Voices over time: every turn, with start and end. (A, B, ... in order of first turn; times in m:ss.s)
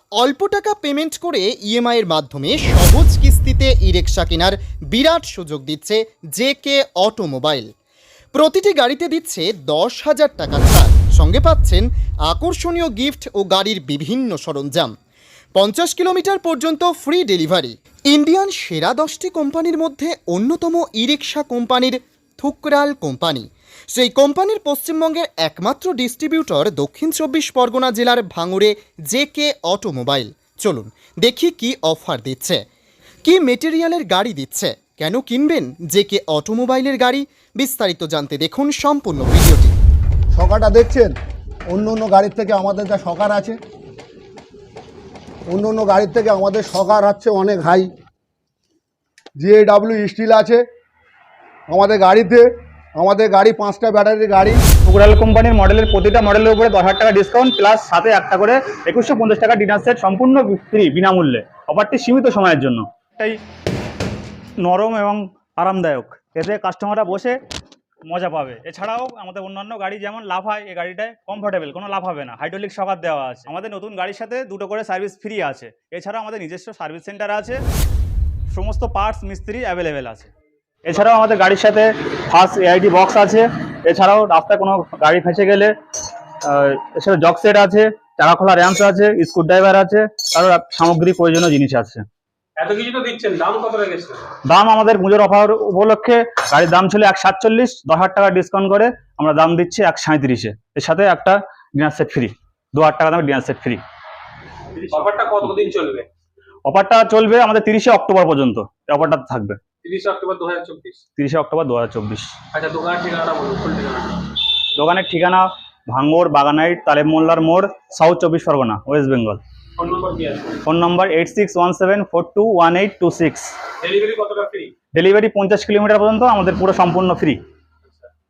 0:00.2-0:07.7 A
0:08.3-0:14.9 A
0:15.6-0:32.6 A
0:33.2-0:39.7 A
0:40.3-0:41.2 B
0:41.7-0:43.6 B
0:45.5-0:47.9 B
0:49.4-0:50.6 B
0:51.7-0:54.6 B
0:54.8-1:03.4 C
1:04.6-1:07.4 C
1:08.1-1:17.6 C
1:18.5-1:20.3 C
1:20.8-1:25.7 C
1:26.4-1:32.0 C
1:32.6-1:34.3 D
1:34.4-1:43.8 C
1:44.9-1:46.1 D
1:46.6-1:49.6 C
1:49.8-1:51.0 D
1:51.2-1:52.3 C
1:52.5-1:54.3 D
1:54.8-1:59.4 C
1:59.8-2:00.6 D
2:00.6-2:03.5 C
2:03.8-2:04.8 D
2:04.9-2:07.4 C